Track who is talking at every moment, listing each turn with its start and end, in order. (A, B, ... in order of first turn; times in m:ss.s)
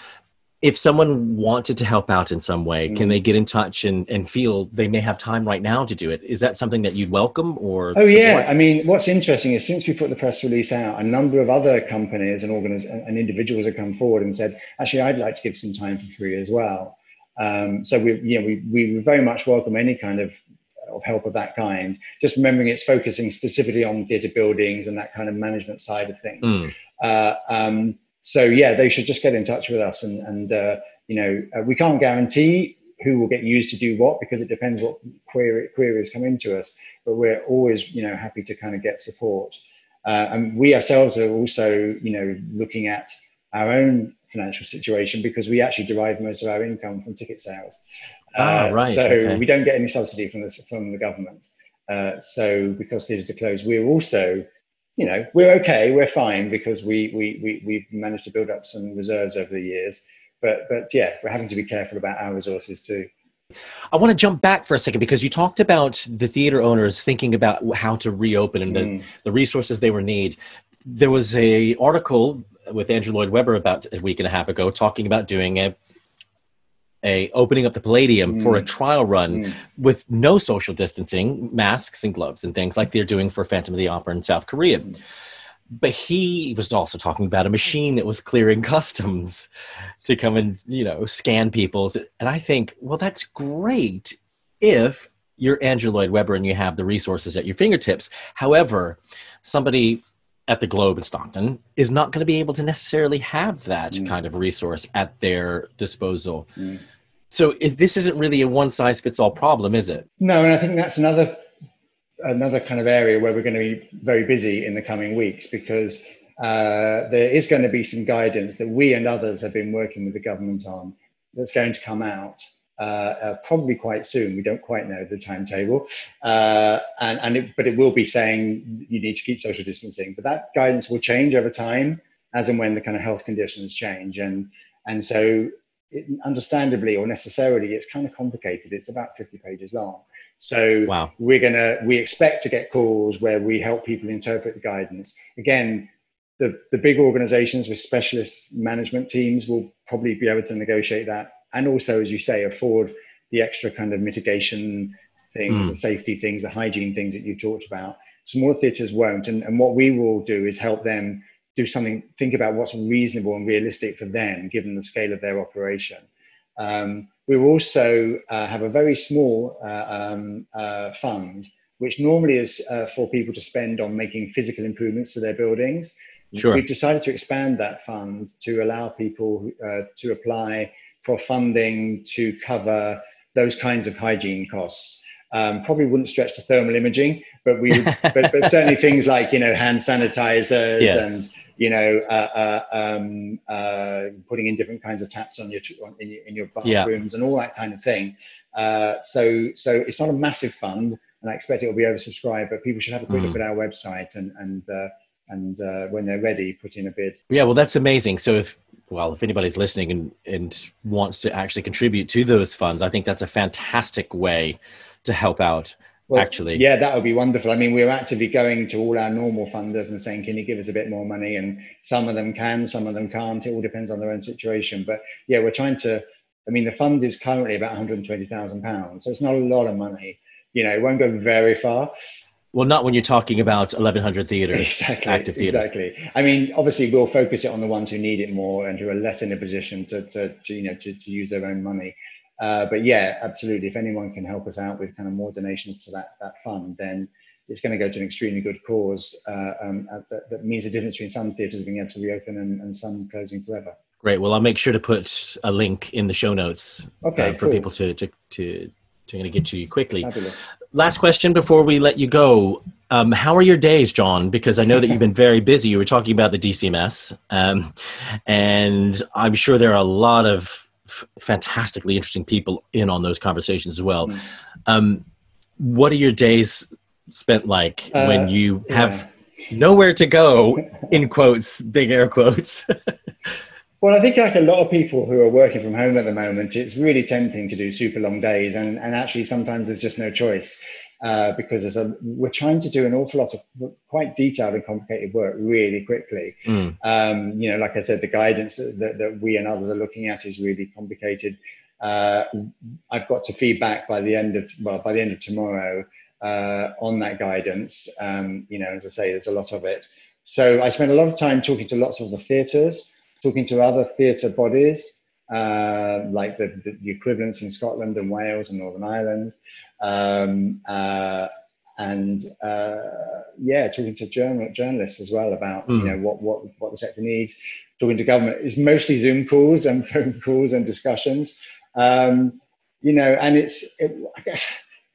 0:00.6-0:08.5 A
0:02.9-0:03.2 B
0:08.0-0:47.8 B
0:48.3-0:54.4 B
0:48.4-0:49.4 A
0:55.0-1:03.1 B
1:03.9-1:15.7 A
1:08.7-1:09.0 B
1:17.0-1:25.0 A
1:18.3-1:18.6 B
1:25.8-1:29.5 A
1:30.0-1:46.5 A
1:47.3-1:50.0 A
1:50.2-1:51.4 B
1:52.2-2:46.1 B
2:46.6-3:27.2 B
2:56.3-2:56.6 A
3:07.9-3:08.5 A
3:10.8-3:11.2 A
3:16.6-3:16.9 A
3:23.1-3:23.4 A
3:27.3-3:36.6 A
3:36.1-3:51.9 B
3:52.5-3:55.7 A
3:54.5-4:13.7 B
4:14.0-4:20.1 A
4:17.0-4:17.7 B
4:20.0-4:20.4 B
4:20.7-4:35.0 A
4:35.6-4:42.9 A
4:37.9-4:39.0 B
4:43.8-5:34.5 B
4:56.5-4:56.8 A